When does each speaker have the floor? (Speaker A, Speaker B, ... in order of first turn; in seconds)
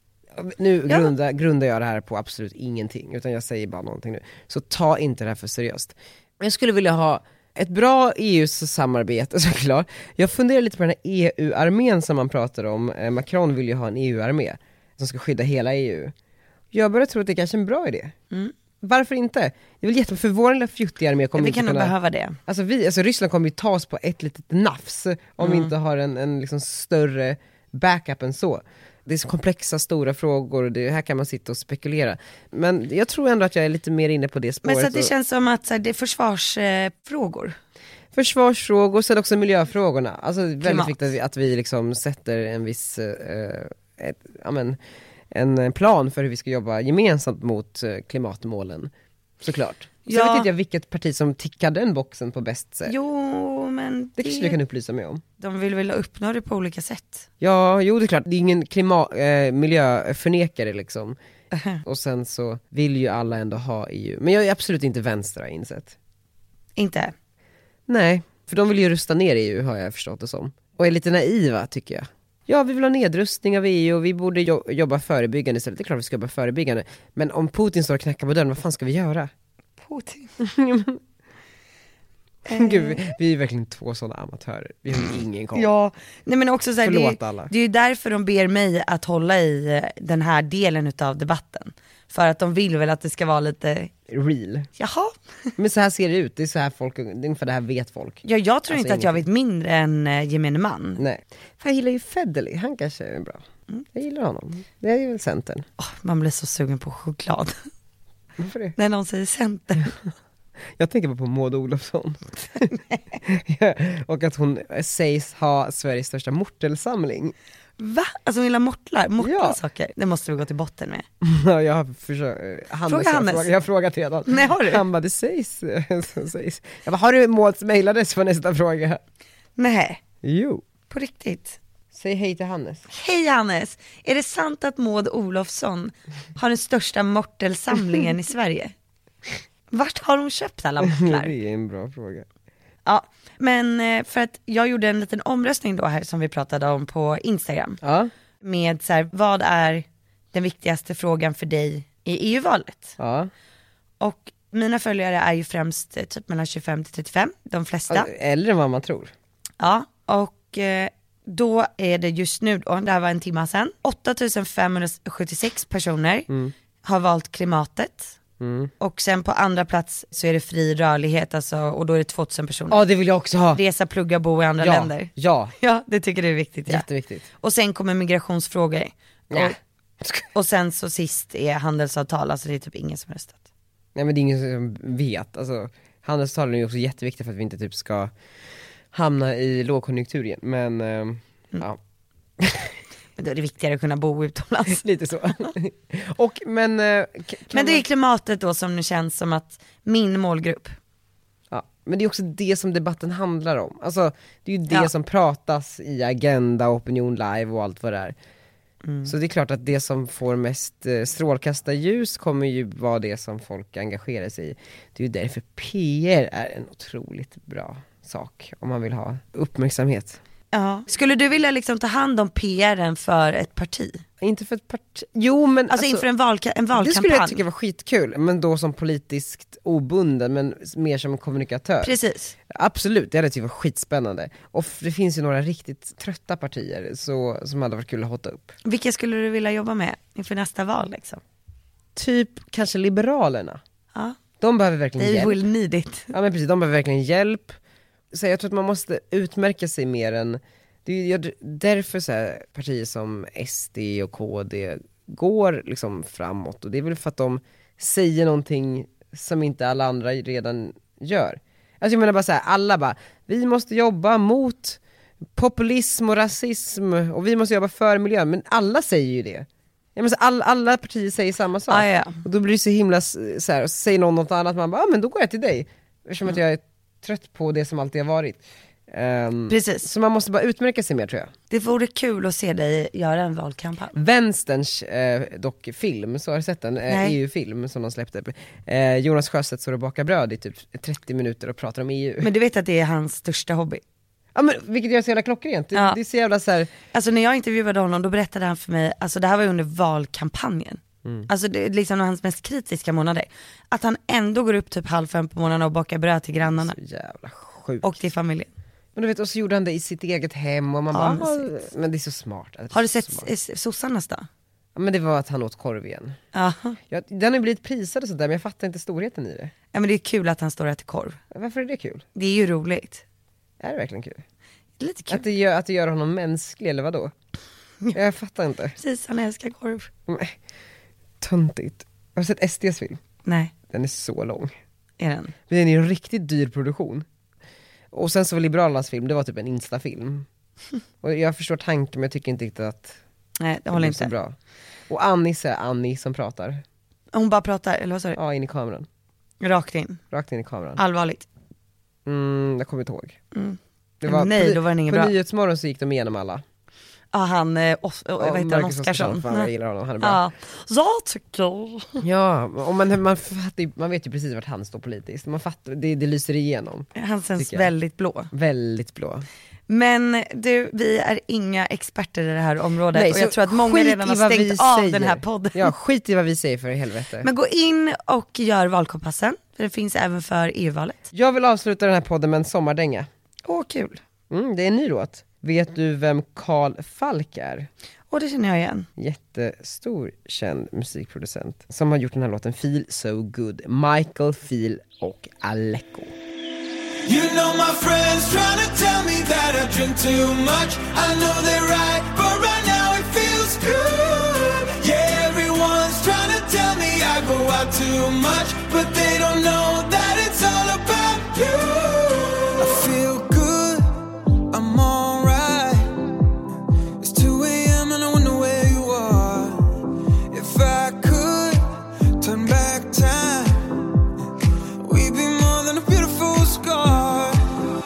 Speaker A: 0.3-16.1, 16.7-18.1, 18.8-21.9, 22.5-35.1, 38.1-44.8, 45.3-52.9, 54.2-55.2, 57.4-61.2, 61.8-66.0, 67.9-79.3, 80.4-81.0, 82.5-85.7, 86.8-87.5, 94.1-94.7, 95.6-99.2, 101.0-105.7, 108.4-108.8, 110.8-112.7, 113.2-117.3, 119.2-119.6, 121.2-129.0, 130.2-130.6, 131.9-132.9, 140.8-142.3, 147.8-148.1, 153.0-153.3, 157.9-159.1, 168.4-168.7, 172.7-173.6, 174.6-175.5, 176.7-177.2, 179.3-179.6, 183.9-188.1, 188.9-191.8, 192.4-192.8, 194.7-197.8, 201.5-208.2, 209.1-220.2, 224.2-226.1, 226.7-232.0, 232.5-238.6, 241.9-243.6, 244.4-245.4, 246.1-247.6, 248.1-264.8, 265.3-281.3, 283.9-292.3, 294.4-296.7, 306.5-307.9, 308.9-313.3, 314.8-316.2, 316.9-319.5, 321.3-322.0, 323.6-324.2, 325.1-327.1, 327.9-328.8, 330.1-330.4, 331.2-333.0, 333.7-334.5, 335.5-337.1, 337.9-340.3, 341.0-343.0, 343.7-344.4, 344.9-346.6, 348.1-348.9, 350.1-350.8, 352.1-353.2, 354.0-356.4, 358.2-360.2, 362.0-367.7, 368.3-369.3, 372.9-377.3, 381.1-383.1, 384.3-387.7, 389.0-396.2
Speaker B: 21.4-22.4, 25.4-25.7, 34.6-37.6, 40.6-41.1, 50.1-50.5, 52.9-54.6, 55.4-57.3, 61.5-61.8, 66.8-67.2, 79.8-80.3, 82.5-83.0, 85.5-93.9, 94.8-95.1, 98.2-101.0, 105.8-107.6, 108.8-109.9, 112.7-113.0, 117.8-121.0, 122.9-123.5, 124.3-124.8, 129.6-130.0, 130.9-131.6, 132.9-138.7, 139.7-141.3, 142.9-147.8, 148.4-153.0, 154.0-158.1, 159.6-166.3, 166.8-168.2, 168.8-172.8, 173.5-176.9, 177.4-179.6, 180.3-183.4, 193.2-194.8, 197.5-200.8, 208.8-209.1, 220.5-224.0, 225.7-227.4, 231.8-232.3, 238.7-241.2, 245.0-246.1, 271.7-272.2, 279.5-279.9, 281.5-283.9, 286.9-287.1, 292.2-293.8, 296.9-306.8, 307.8-308.5, 310.9-311.5, 312.7-314.3, 316.3-316.8, 319.7-321.2, 322.1-323.0, 324.8-325.2, 328.8-329.9, 333.2-333.5, 335.0-335.3, 343.4-344.1, 347.1-348.2, 349.4-350.0, 350.8-351.3, 353.3-355.1, 357.1-362.0, 367.0-368.3, 369.7-375.8, 377.2-381.0, 383.5-384.0, 388.1-388.9
Speaker C: 397.1-415.9, 417.0-421.6, 422.2-423.7, 424.8-427.4